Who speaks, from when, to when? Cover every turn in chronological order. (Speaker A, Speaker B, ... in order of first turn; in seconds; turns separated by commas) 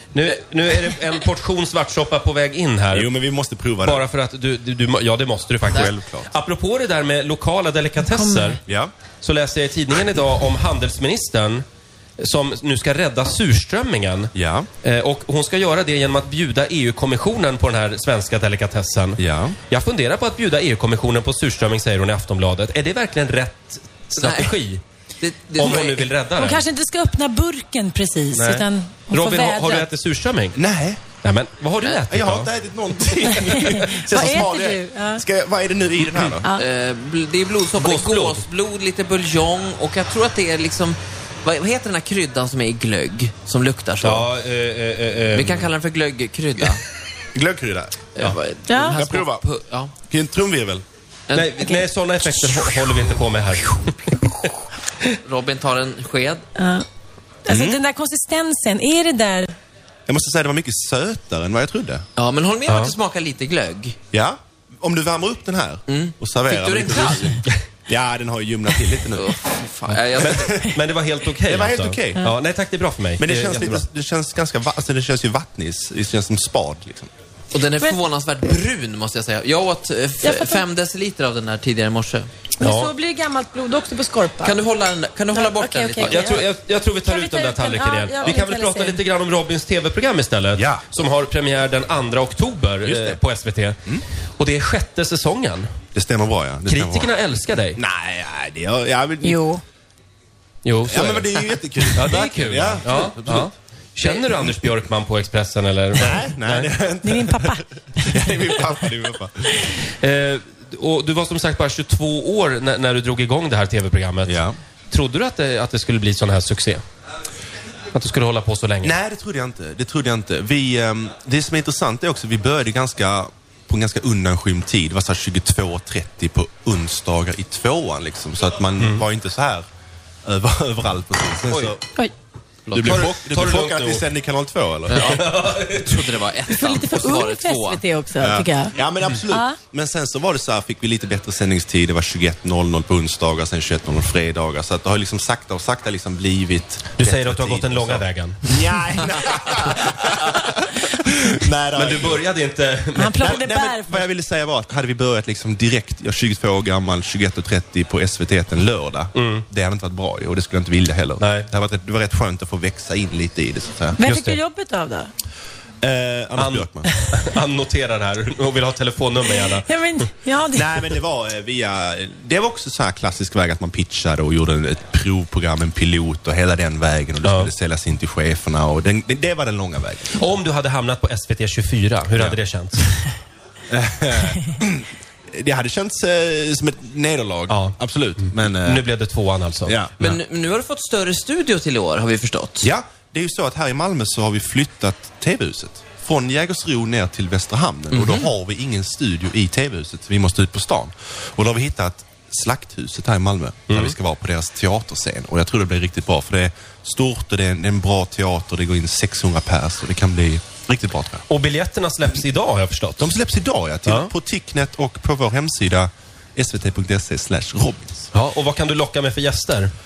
Speaker A: 0.1-3.1, Speaker B: 2.9-4.1, Speaker A: 3.8-8.6, Speaker B: 5.6-6.3, Speaker C: 8.0-8.6, Speaker A: 9.2-11.7, Speaker A: 12.2-24.8, Speaker B: 14.3-14.7, Speaker B: 19.2-19.6, Speaker D: 24.1-24.6, Speaker D: 25.2-26.1, Speaker A: 25.6-26.6, Speaker C: 26.4-29.9, Speaker A: 28.3-30.6, Speaker B: 30.6-31.0, Speaker A: 31.2-32.5, Speaker B: 32.1-36.5, Speaker C: 33.2-35.2, Speaker A: 33.6-34.0, Speaker C: 36.4-36.7, Speaker D: 36.6-44.3, Speaker A: 37.7-38.5, Speaker A: 44.0-45.7, Speaker D: 45.3-46.8, Speaker B: 47.3-48.1, Speaker D: 48.1-49.9, Speaker C: 48.7-49.0, Speaker B: 48.8-49.5, Speaker B: 50.1-50.8, Speaker D: 51.3-53.2, Speaker A: 51.3-54.3, Speaker D: 55.2-56.5, Speaker C: 56.6-56.9, Speaker C: 57.5-59.5, Speaker B: 57.5-57.8, Speaker B: 60.1-62.0, Speaker D: 62.2-64.0, Speaker A: 62.7-63.0, Speaker B: 64.1-69.4, Speaker D: 65.9-67.5, Speaker D: 69.2-70.6, Speaker A: 70.2-73.8, Speaker B: 70.2-70.8, Speaker B: 71.5-72.3, Speaker B: 73.2-77.1, Speaker D: 77.5-82.3, Speaker C: 80.2-80.6, Speaker C: 82.6-84.6, Speaker A: 82.6-82.9, Speaker D: 84.4-86.5, Speaker C: 85.3-86.5, Speaker A: 86.0-93.8, Speaker C: 87.0-89.0, Speaker B: 90.5-90.8, Speaker B: 92.8-93.2, Speaker A: 94.4-95.7, Speaker B: 95.9-97.2, Speaker A: 96.7-97.8, Speaker B: 97.8-99.5, Speaker C: 99.2-99.6, Speaker A: 100.6-106.7, Speaker B: 100.9-103.5, Speaker B: 104.0-104.7, Speaker B: 106.0-109.6, Speaker C: 107.0-108.2, Speaker A: 109.7-116.8, Speaker B: 114.2-114.5, Speaker A: 117.9-118.9, Speaker B: 118.8-129.7, Speaker A: 128.8-129.0, Speaker B: 130.2-131.8, Speaker A: 131.5-131.8, Speaker D: 132.7-133.1, Speaker B: 132.7-135.2, Speaker A: 132.8-134.1, Speaker D: 134.9-137.8, Speaker A: 135.0-136.1, Speaker C: 136.5-139.6, Speaker B: 138.2-152.2, Speaker A: 147.0-148.5, Speaker A: 151.8-153.4, Speaker C: 153.0-154.1, Speaker B: 153.2-164.0, Speaker A: 159.2-159.4, Speaker A: 161.2-161.5, Speaker C: 164.0-165.1, Speaker A: 164.0-164.4, Speaker B: 165.8-166.9, Speaker A: 166.4-169.7, Speaker C: 169.4-170.9, Speaker B: 170.5-180.3, Speaker A: 177.2-177.5, Speaker A: 180.2-182.9, Speaker B: 183.7-188.9, Speaker A: 187.5-190.2, Speaker B: 189.7-190.1, Speaker D: 190.0-192.7, Speaker B: 192.6-211.2, Speaker D: 197.9-198.3, Speaker A: 203.7-203.9, Speaker A: 211.3-213.1, Speaker B: 213.0-218.1, Speaker A: 213.9-214.1, Speaker A: 218.1-219.7